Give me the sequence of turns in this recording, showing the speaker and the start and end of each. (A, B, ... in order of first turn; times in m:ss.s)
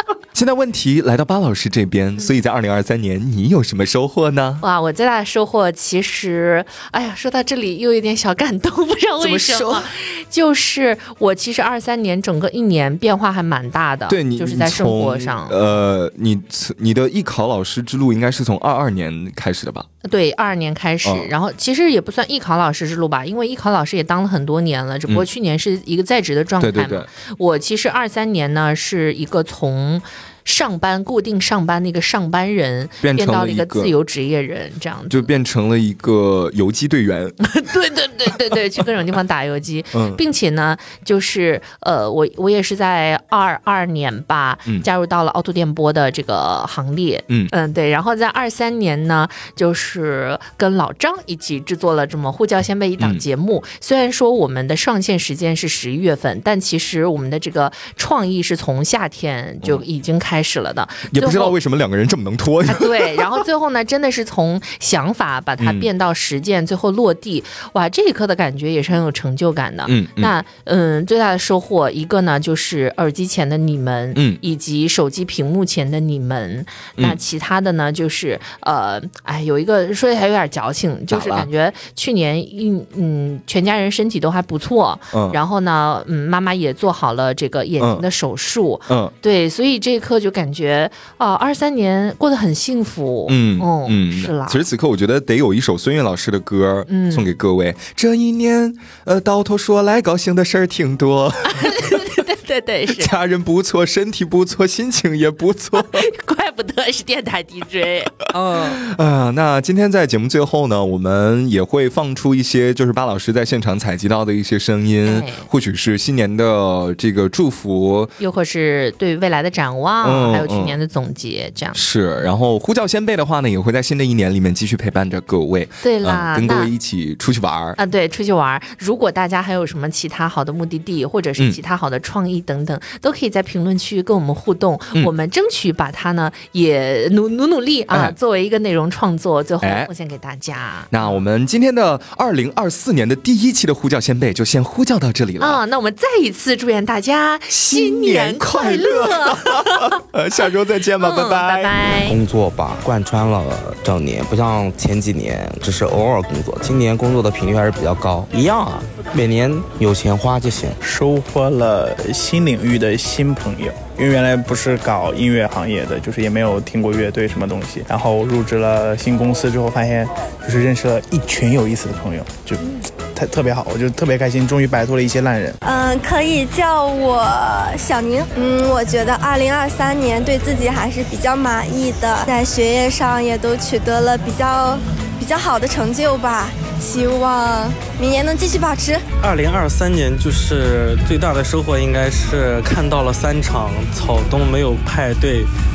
0:00.3-0:04.6 A
0:04.6-0:15.6 B
0:09.2-0:09.9 A
0:14.1-0:19.9 A
0:20.0-0:35.3 B
0:21.0-0:21.3 A
0:26.6-0:27.1 A
0:33.0-0:33.9 A
0:35.1-0:37.4 A
0:37.4-1:01.6 B
0:39.9-0:40.2 A
0:53.0-0:53.2 A
1:01.1-1:03.4 A
1:02.6-1:34.6 B
1:05.6-1:05.9 A
1:09.9-1:10.3 A
1:14.1-1:14.4 A
1:21.1-1:21.5 A
1:25.1-1:25.4 A
1:27.8-1:28.0 A
1:33.3-1:42.2 A
1:36.9-1:37.3 B
1:41.5-1:43.1 B
1:42.9-1:46.1 A
1:45.8-1:48.8 B
1:48.6-1:58.1 A
1:55.0-1:55.4 B
1:58.2-2:01.8 B
2:00.0-2:00.8 A
2:01.7-2:07.8 A
2:05.8-2:06.7 B
2:07.8-2:21.2 B
2:17.9-2:18.2 A
2:19.6-2:19.9 A
2:20.9-2:25.6 A
2:25.4-2:30.0 B
2:27.5-2:31.7 A
2:31.0-2:32.2 B
2:32.0-2:40.8 C
2:40.8-2:55.6 D
2:55.6-3:09.0 E
3:09.2-3:15.5 F